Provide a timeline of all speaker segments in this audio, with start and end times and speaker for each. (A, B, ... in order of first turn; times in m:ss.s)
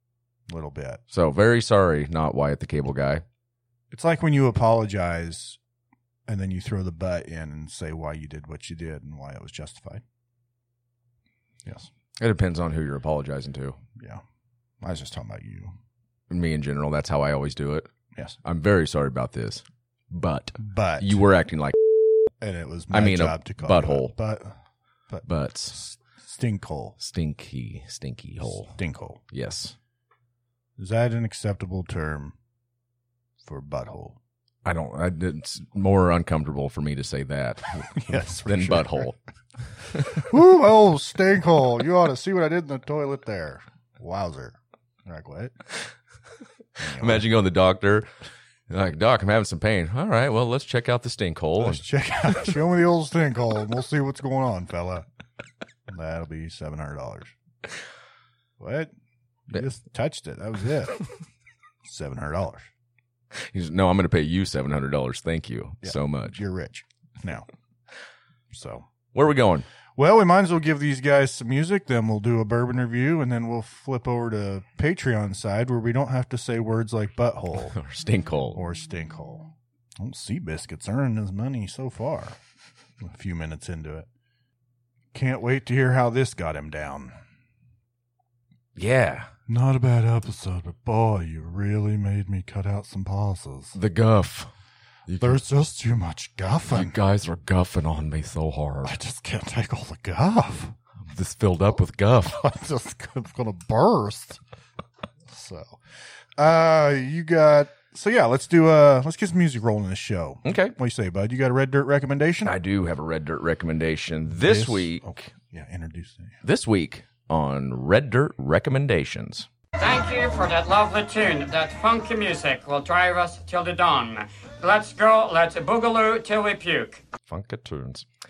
0:00.5-0:01.0 A
0:01.1-0:03.2 B
0:03.9-0:05.6 A
0:06.3-0:10.0 A
0:12.2-0:13.8 B
0:14.0-0:14.2 A
0:14.8-0:15.7 A
0:16.3-0:17.9 B
0:18.4-0:21.8 B
0:20.6-0:21.2 A
0:22.4-0:24.6 A
0:22.9-0:24.2 B
0:25.1-0:27.0 A
0:25.2-0:25.8 B
0:27.0-0:28.8 B
0:28.6-0:29.2 A
0:29.3-0:29.8 B
0:30.8-0:32.4 A
0:33.4-0:34.2 A
0:34.6-0:39.2 B
0:38.0-0:39.1 A
0:40.1-0:45.5 A
0:46.8-0:47.3 A
0:46.8-0:48.1 B
0:48.7-0:51.8 B
0:51.6-0:55.0 A
0:55.9-0:57.3 A
0:58.6-0:58.9 A
0:59.5-1:01.0 A
1:01.8-1:02.7 A
1:03.3-1:06.4 B
1:05.8-1:07.5 A
1:08.5-1:08.9 A
1:09.1-1:09.7 B
1:10.0-1:17.8 A
1:17.7-1:18.6 B
1:18.5-1:22.4 A
1:23.0-1:24.1 A
1:25.1-1:27.1 A
1:28.8-1:29.3 B
1:29.5-1:33.8 A
1:33.7-1:34.5 B
1:35.1-1:35.4 B
1:35.2-1:36.9 A
1:36.7-1:39.0 B
1:38.8-1:40.7 A
1:41.1-1:42.4 B
1:42.3-1:44.4 A
1:45.3-1:45.8 A
1:46.4-1:52.6 A
1:50.4-1:50.7 B
1:52.4-1:55.1 B
1:54.3-1:56.4 A
1:56.4-1:59.5 B
1:59.8-2:07.0 C
2:07.3-2:08.0 B